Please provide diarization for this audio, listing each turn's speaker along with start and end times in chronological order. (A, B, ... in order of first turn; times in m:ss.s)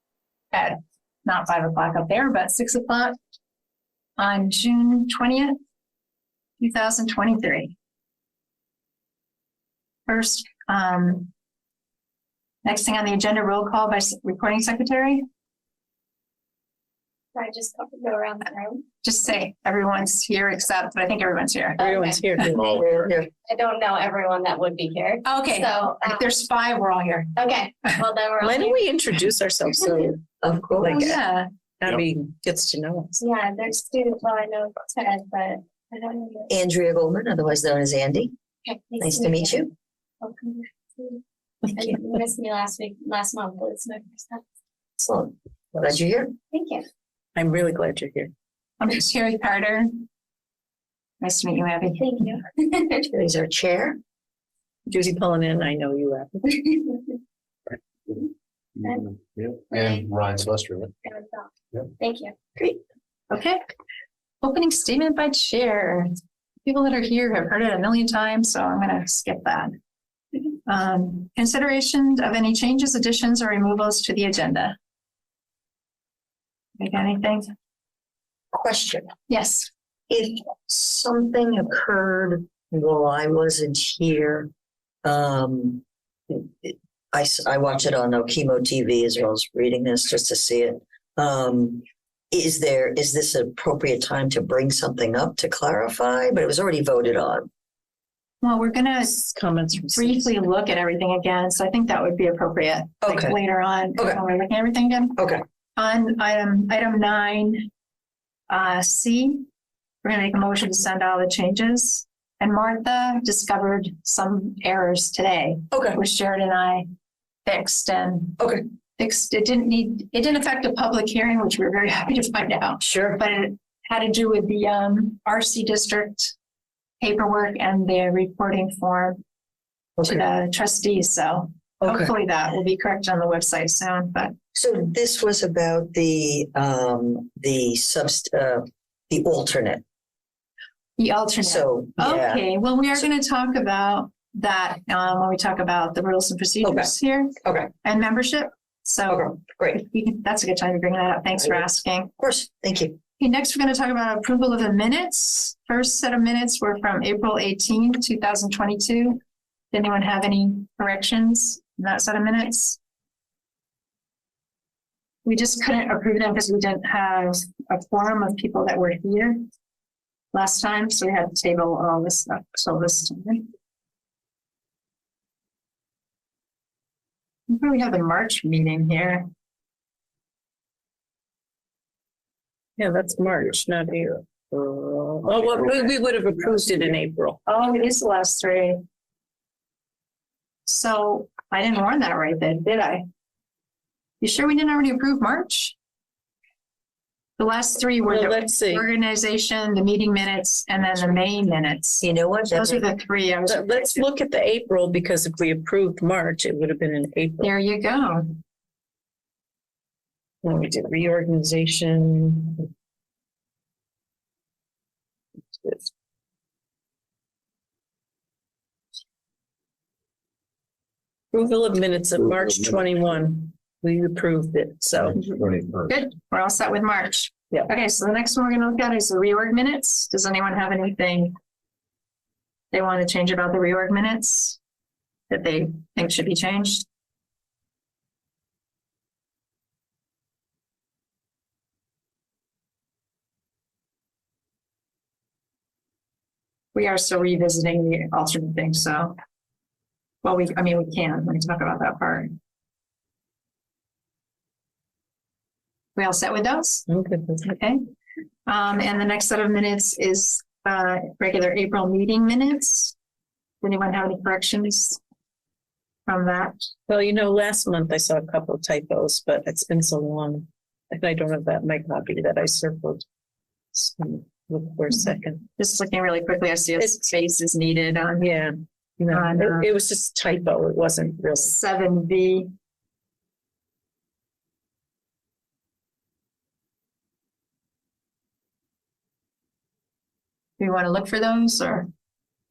0:00.5-0:03.2 A
0:04.2-0:05.6 A
0:06.6-0:07.7 A
0:10.1-0:11.3 A
0:12.6-0:15.2 A
0:17.4-0:18.8 B
0:19.0-0:21.8 A
0:21.8-0:22.2 B
0:21.8-0:22.6 C
0:22.6-0:23.3 D
0:23.5-0:26.2 B
0:25.2-0:27.3 A
0:27.4-0:28.8 B
0:28.4-0:30.2 C
0:30.4-0:31.1 D
0:30.8-0:31.2 C
0:30.9-0:31.5 A
0:31.8-0:33.2 C
0:33.2-0:36.5 B
0:36.5-0:38.3 D
0:38.6-0:39.7 B
0:39.0-0:39.7 D
0:40.2-0:44.4 B
0:45.0-0:46.3 D
0:46.5-0:46.9 B
0:47.4-0:48.3 C
0:48.8-0:49.9 A
0:51.2-0:52.3 A
0:52.0-0:53.1 B
0:53.1-0:54.0 D
0:54.9-0:56.8 C
0:56.7-0:57.0 B
0:58.8-1:00.9 E
0:58.8-0:59.1 B
0:59.7-1:00.0 B
1:01.0-1:02.3 B
1:03.3-1:03.6 A
1:04.4-1:06.1 A
1:06.6-1:09.8 A
1:10.6-1:14.8 A
1:16.8-1:17.5 A
1:18.5-1:19.1 D
1:19.3-1:19.7 A
1:20.1-1:24.5 D
1:25.0-1:37.5 D
1:38.4-1:39.3 A
1:39.2-1:40.3 C
1:39.9-1:45.2 A
1:43.0-1:43.4 D
1:45.2-1:45.4 D
1:45.8-1:47.7 A
1:48.5-1:49.4 A
1:50.0-1:56.9 A
1:55.7-1:56.0 D
1:57.4-1:58.4 A
1:59.0-2:06.3 A
2:02.8-2:03.2 D
2:07.0-2:09.2 A
2:10.0-2:10.2 D
2:10.0-2:14.3 A
2:11.8-2:12.1 D
2:14.5-2:19.8 D
2:21.0-2:32.1 A
2:21.4-2:22.5 D
2:26.6-2:26.9 D
2:27.4-2:27.7 D
2:29.1-2:29.8 D
2:32.2-2:33.0 D
2:33.2-2:39.2 A
2:39.7-2:42.8 A
2:45.2-2:49.4 A
2:50.3-2:53.5 A
2:57.5-2:59.3 A
3:02.8-3:07.4 C
3:07.5-3:08.8 A
3:10.7-3:13.1 A
3:14.2-3:15.8 A
3:17.4-3:24.1 A
3:18.1-3:18.9 C
3:22.0-3:22.9 D
3:23.5-3:27.5 C
3:27.4-3:28.4 A
3:30.4-3:32.7 C
3:35.6-3:35.9 C
3:41.3-3:45.4 C
3:42.4-3:42.8 E
3:45.0-3:45.9 E
3:45.9-3:51.4 A
3:52.7-3:54.6 A
3:55.3-3:56.9 A
4:06.8-4:09.2 A
4:10.2-4:12.4 A
4:16.0-4:16.9 A
4:16.9-4:17.4 C
4:17.4-4:17.8 A
4:18.5-4:23.0 A
4:23.6-4:25.0 A
4:26.1-4:26.7 A
4:26.9-4:33.0 C
4:33.7-4:35.5 C
4:35.6-4:38.3 A
4:38.2-4:41.5 C
4:39.1-4:39.7 A
4:41.4-4:42.5 A
4:50.6-4:51.9 A